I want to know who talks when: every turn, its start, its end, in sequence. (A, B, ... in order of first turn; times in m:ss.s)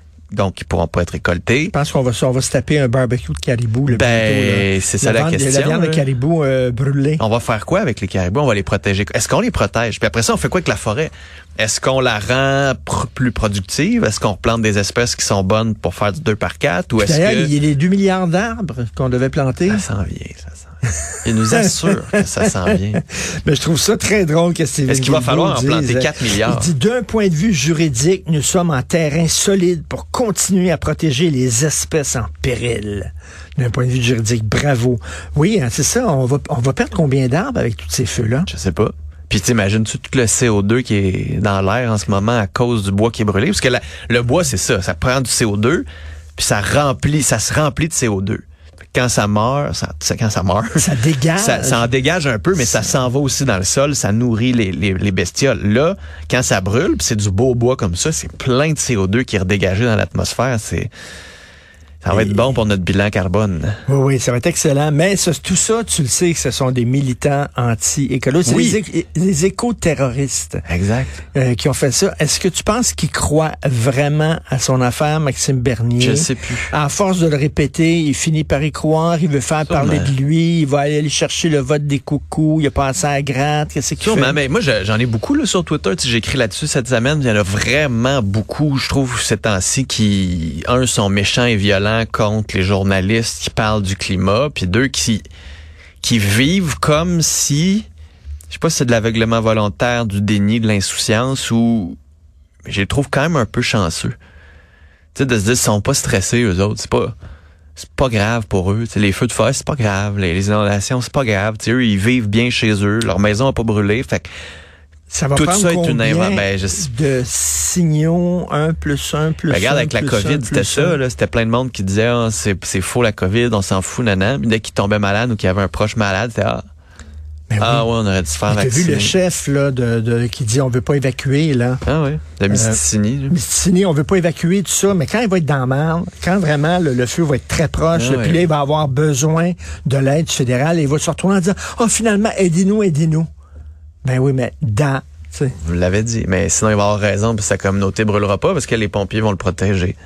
0:00.3-0:01.7 A
0:01.7-0:07.2 B
0:03.9-0:06.1 A
0:07.2-0:17.5 A
0:17.0-0:19.8 B
0:19.7-0:23.0 A
0:21.5-0:38.5 B
0:24.9-0:26.7 A
0:38.5-0:45.9 A
0:46.4-1:00.9 A
0:50.8-0:51.9 B
0:52.6-0:52.9 B
1:02.0-1:03.8 A
1:02.1-1:02.5 B
1:03.9-1:10.6 B
1:08.4-1:08.8 A
1:10.7-1:11.2 A
1:11.3-1:24.4 B
1:16.0-1:16.7 A
1:19.7-1:20.1 A
1:24.0-1:35.2 A
1:36.0-1:37.9 A
1:38.5-1:42.0 A
1:42.7-1:44.2 A
1:45.1-1:47.2 A
1:47.8-1:54.2 A
1:55.1-2:01.0 B
1:55.4-1:56.9 A
1:59.5-2:06.6 A
2:07.5-2:07.9 B
2:07.6-2:09.2 A
2:08.5-2:11.8 B
2:11.9-2:13.4 A
2:12.5-2:23.3 B
2:17.9-2:18.5 A
2:24.0-2:25.6 B
2:25.6-2:30.0 A